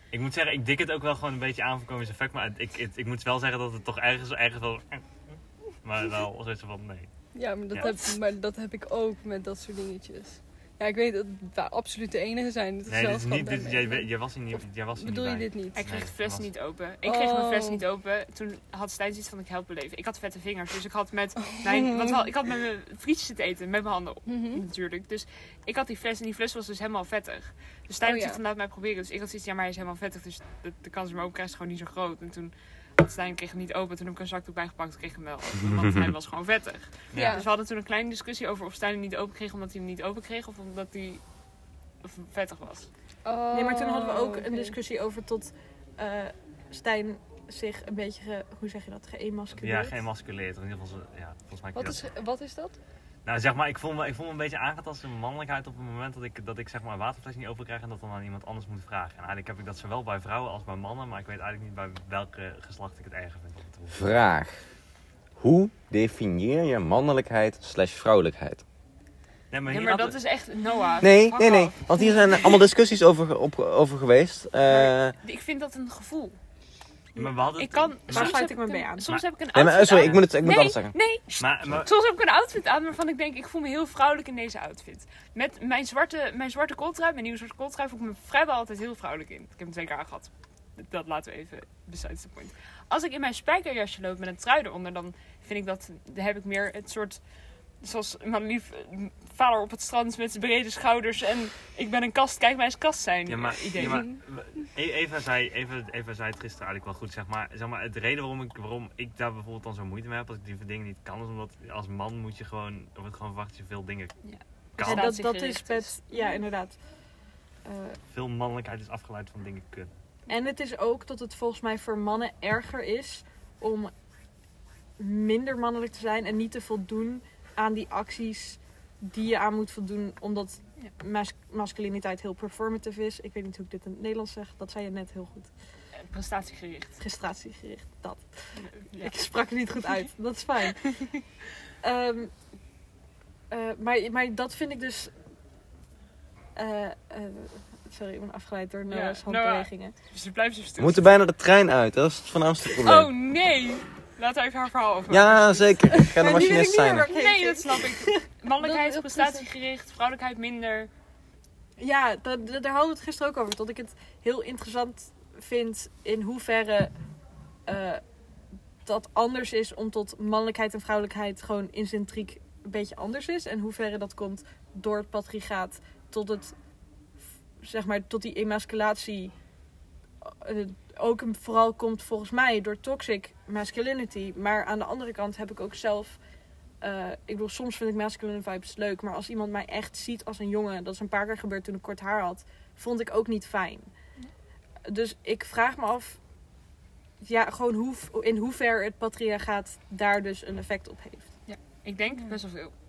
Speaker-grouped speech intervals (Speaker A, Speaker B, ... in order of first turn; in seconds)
Speaker A: 0.1-7.1, 7.7-8.2, 12.9-16.5, 37.1-37.4, 49.5-52.0, 53.2-64.0, 69.5-70.2, 77.2-78.4, 79.0-79.3, 80.0-80.3, 81.4-81.9, 103.3-114.1, 114.7-115.1, 118.1-119.9
Speaker B: 7.3-15.8, 17.0-17.8, 21.4-22.2, 24.2-24.6, 28.0-28.4, 37.1-37.5, 43.2-44.8, 51.7-52.8, 158.6-159.5
Speaker C: 15.8-41.2, 42.0-42.9, 69.7-72.6, 74.7-76.4, 77.6-97.2, 97.8-104.1, 114.2-116.2, 136.1-136.9, 138.6-139.1, 140.8-141.2, 148.9-151.1, 152.7-156.0, 157.0-160.9, 201.5-202.7
Speaker D: 43.5-50.0, 78.1-79.1, 114.8-116.8, 117.6-118.0, 120.3-123.9, 125.0-135.5, 137.0-138.2, 139.0-140.9, 141.8-142.3, 143.5-145.1, 146.6-149.9, 156.2-158.2, 161.8-166.9, 167.7-168.0, 168.8-176.5, 177.6-179.3, 180.2-186.2, 186.8-193.9, 194.8-196.2, 197.2-201.3
Speaker E: 63.9-64.6, 65.4-68.6, 71.0-75.1, 79.5-81.0, 150.8-153.1, 155.1-157.1